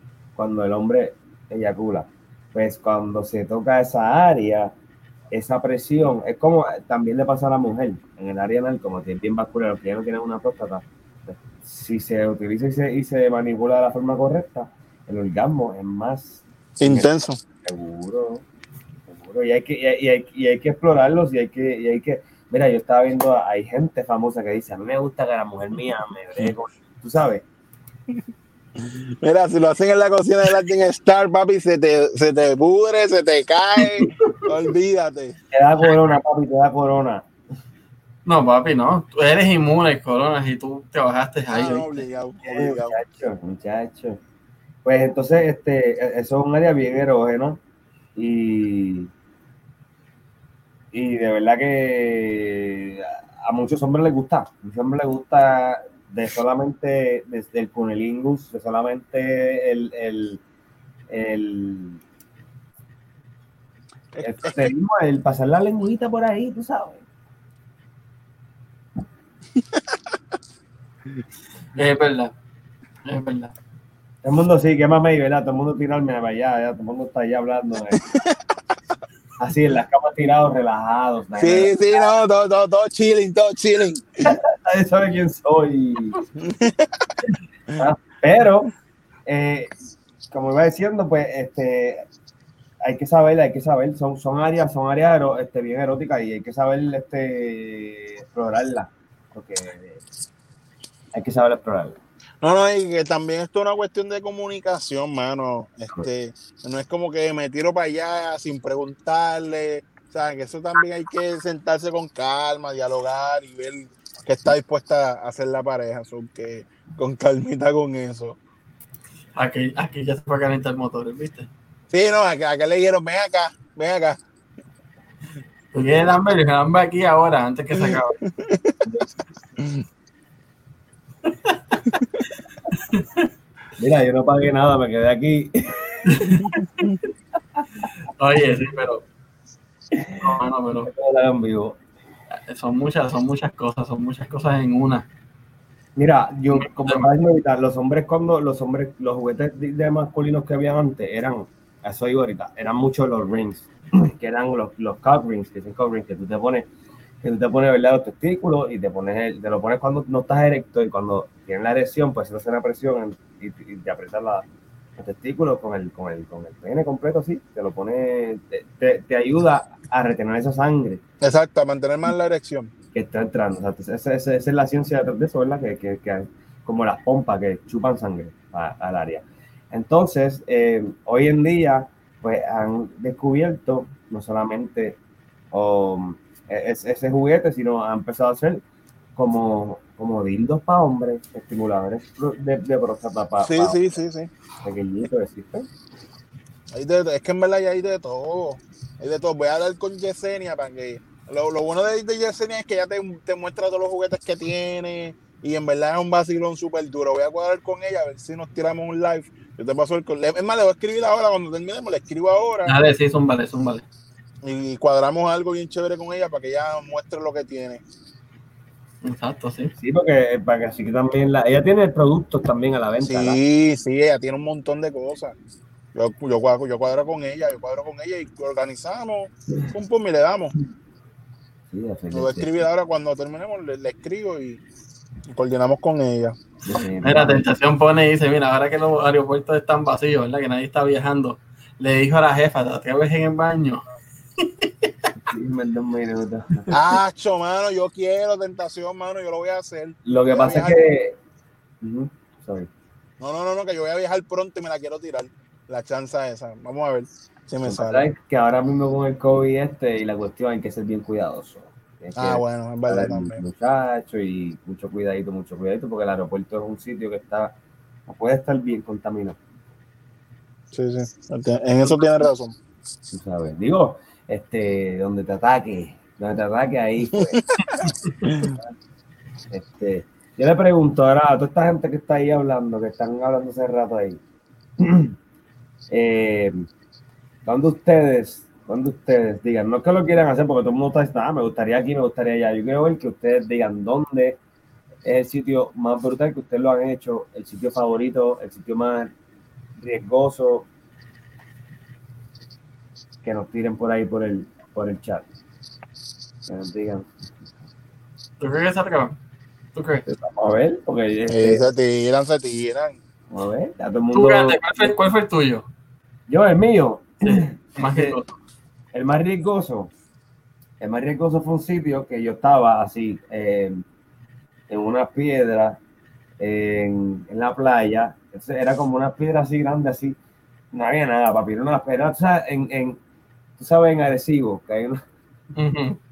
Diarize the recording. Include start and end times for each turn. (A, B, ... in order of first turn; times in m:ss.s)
0:00.4-0:04.7 A
0:05.3-0:17.1 A
0:16.8-0:17.4 B
0:17.6-0:18.4 A
0:19.1-0:27.4 A
0:28.8-0:35.4 B
0:35.5-0:37.3 A
0:38.3-0:42.0 C
0:41.5-0:43.0 B
0:42.4-0:44.2 A
0:44.8-0:47.6 A
0:48.2-0:49.1 A
0:50.9-1:00.4 A
1:01.1-1:02.0 A
1:04.1-1:04.7 B
1:04.2-1:07.0 A
1:09.6-1:10.0 B
1:11.7-1:12.3 C
1:13.0-1:13.5 C
1:14.2-1:18.0 A
1:17.9-1:18.4 B
1:19.4-1:22.1 A
1:21.4-1:24.3 B
1:24.2-1:26.2 A
1:26.4-1:27.1 B
1:27.7-1:28.7 A
1:29.3-1:29.8 A
1:30.3-1:32.1 A
1:32.8-1:40.0 A
1:41.1-1:42.0 A
1:42.4-1:58.4 B
1:59.4-2:01.5 C
2:01.9-2:04.2 B
2:05.7-2:08.2 C
2:08.4-2:08.8 B
2:11.3-2:11.6 C
2:12.7-2:13.3 C
2:13.8-2:16.3 A
2:16.1-2:17.0 C
2:16.3-2:17.0 B
2:17.9-2:19.0 C
2:19.9-2:21.8 A
2:20.2-2:20.9 C
2:22.5-2:25.1 C
2:26.0-2:36.7 A
2:26.5-2:27.1 C
2:37.2-2:44.5 A
2:45.0-2:51.0 A
2:51.2-2:52.7 B
2:52.9-3:05.0 A
3:05.5-3:08.6 A
3:09.2-3:13.9 A
3:13.4-3:14.3 B
3:14.6-3:15.7 A
3:16.7-3:32.8 B
3:32.7-3:33.9 C
3:34.4-3:37.8 B
3:39.0-3:39.7 C
3:39.8-3:43.4 A
3:43.0-3:45.4 B
3:45.9-3:50.5 B
3:51.7-3:52.6 A
3:52.1-3:54.6 B
3:55.3-3:56.4 B
3:56.7-3:57.4 A
3:57.0-4:03.8 C
4:04.4-4:04.9 C
4:05.3-4:06.7 A
4:06.7-4:10.8 B
4:10.0-4:11.2 A
4:11.8-4:12.7 A
4:13.2-4:18.1 B
4:17.7-4:27.5 A
4:22.2-4:23.4 B
4:28.1-4:29.4 A
4:30.7-4:32.6 B
4:31.9-4:32.3 C
4:33.1-4:37.4 A
4:37.1-4:38.6 B
4:37.6-4:38.3 C
4:39.5-4:44.2 A
4:44.8-4:45.2 A
4:45.9-4:46.7 A
4:47.4-4:54.4 A
4:55.0-4:59.1 A
4:59.8-5:00.7 A
5:03.2-5:05.3 A
5:06.5-5:07.1 A
5:08.4-5:09.2 C
5:09.7-5:10.0 C
5:10.1-5:11.7 A
5:11.3-5:13.0 B
5:13.3-5:14.9 A
5:14.1-5:15.7 C
5:16.3-5:18.2 A
5:17.2-5:18.4 C
5:18.9-5:19.9 A
5:20.8-5:23.8 A
5:24.7-5:25.8 A
5:26.4-5:30.2 A
5:30.7-5:33.0 A
5:33.6-5:35.0 A
5:35.6-5:36.0 C